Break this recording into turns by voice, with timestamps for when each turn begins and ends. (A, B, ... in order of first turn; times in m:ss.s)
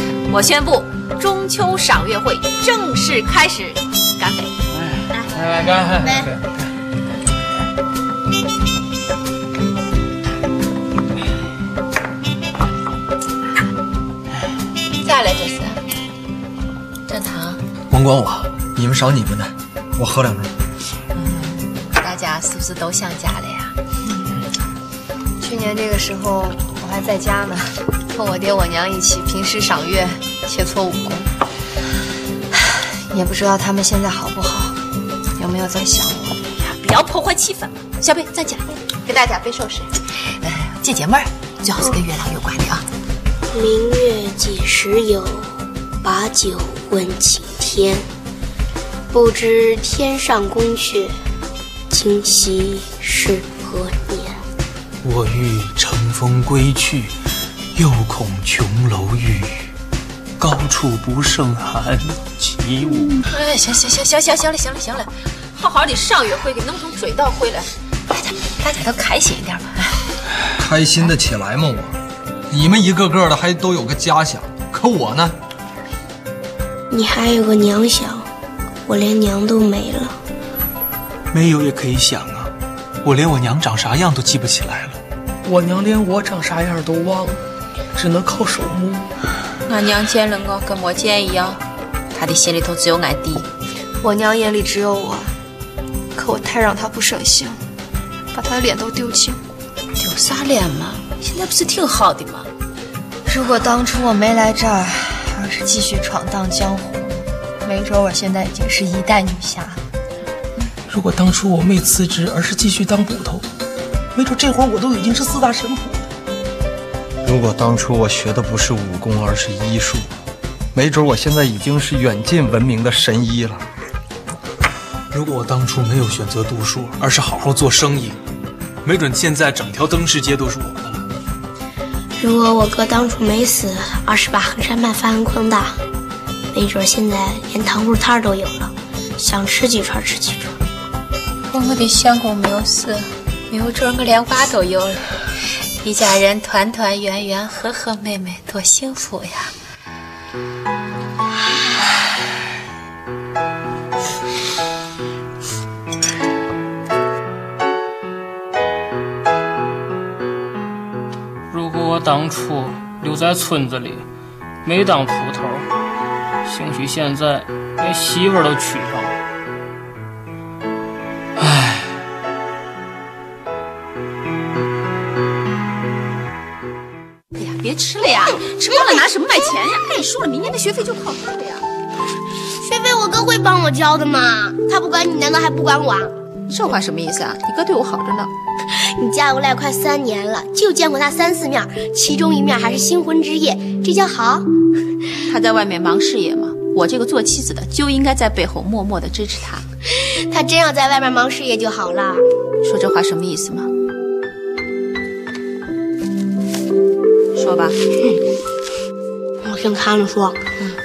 0:00.3-0:04.5 A
0:05.3-0:06.3 B
0:15.0-0:15.8 A
0:17.1-0:17.6 A
0:17.9-0:20.5 C
0:21.1-0:23.7 A
0:25.4-0:31.3 D
0:33.1-0:34.8 D
0:35.4-0:36.4 D
0:36.6-0:38.6 A
0:39.1-0:39.9 D
0:40.4-0:42.8 A
0:43.5-0:48.0 E
0:49.1-0:51.1 E
0:51.9-0:54.4 E
0:55.0-0:57.2 F
0:57.7-0:59.7 F
1:00.4-1:03.2 F
1:03.3-1:07.7 A
1:08.4-1:10.0 A
1:10.6-1:12.0 C
1:12.5-1:15.4 C
1:16.9-1:18.2 E
1:18.8-1:20.2 E
1:21.3-1:25.0 F
1:25.4-1:27.4 G
1:27.9-1:29.1 G
1:29.6-1:31.6 A
1:32.1-1:33.5 A
1:34.0-1:35.3 D
1:36.1-1:37.6 D
1:38.3-1:39.4 D
1:40.0-1:42.5 A
1:43.2-1:49.8 D
1:50.9-1:53.4 G
1:54.1-1:56.0 G
1:57.2-2:00.1 C
2:00.7-2:03.6 C
2:05.1-2:08.2 F
2:08.8-2:11.1 F
2:12.2-2:15.8 E
2:16.5-2:20.5 E
2:21.5-2:25.1 A
2:25.8-2:29.5 A
2:41.5-2:44.0 B
2:44.6-2:45.7 B
2:46.4-2:49.2 B
2:51.4-2:51.9 B
2:57.3-3:01.6 A
3:02.6-3:06.1 E
3:06.5-3:08.3 A
3:08.7-3:14.5 E
3:15.2-3:19.7 A
3:19.9-3:22.2 E
3:22.6-3:23.7 A
3:27.3-3:27.8 A
3:29.4-3:30.4 E